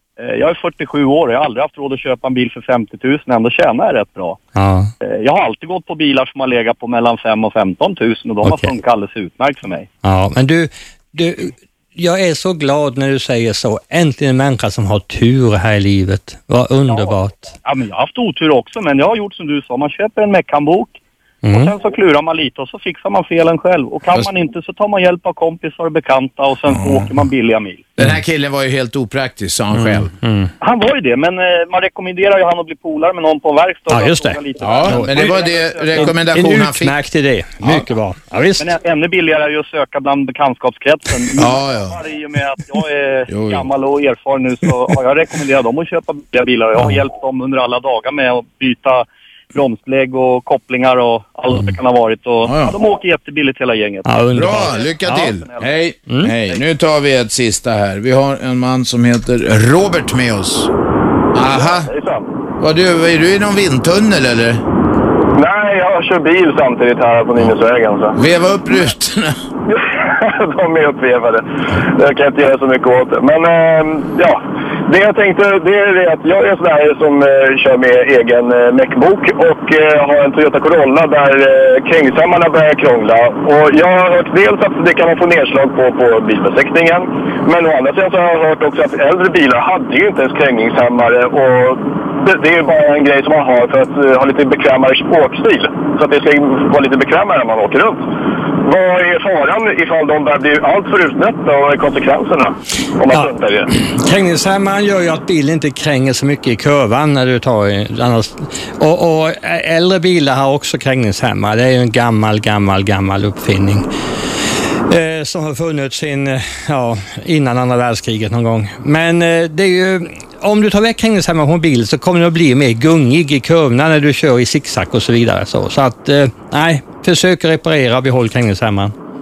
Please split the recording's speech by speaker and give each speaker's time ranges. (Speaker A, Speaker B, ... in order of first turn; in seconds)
Speaker A: 0.2-4.4, 5.0-9.9, 16.9-28.0, 30.6-36.2, 38.6-54.9
Speaker B: 4.6-4.9, 8.4-8.7, 10.0-17.5, 21.4-21.7, 29.7-30.5, 33.9-35.4, 36.0-38.7, 54.0-55.4, 56.1-56.3, 103.1-113.9, 114.9-128.9
Speaker C: 28.0-30.1, 34.6-37.0, 41.4-42.0, 43.3-43.6, 52.5-52.7, 54.3-60.7, 61.3-61.9, 62.6-64.6, 68.1-69.3
Speaker D: 61.8-62.3, 65.3-68.2, 69.7-98.1, 98.6-103.7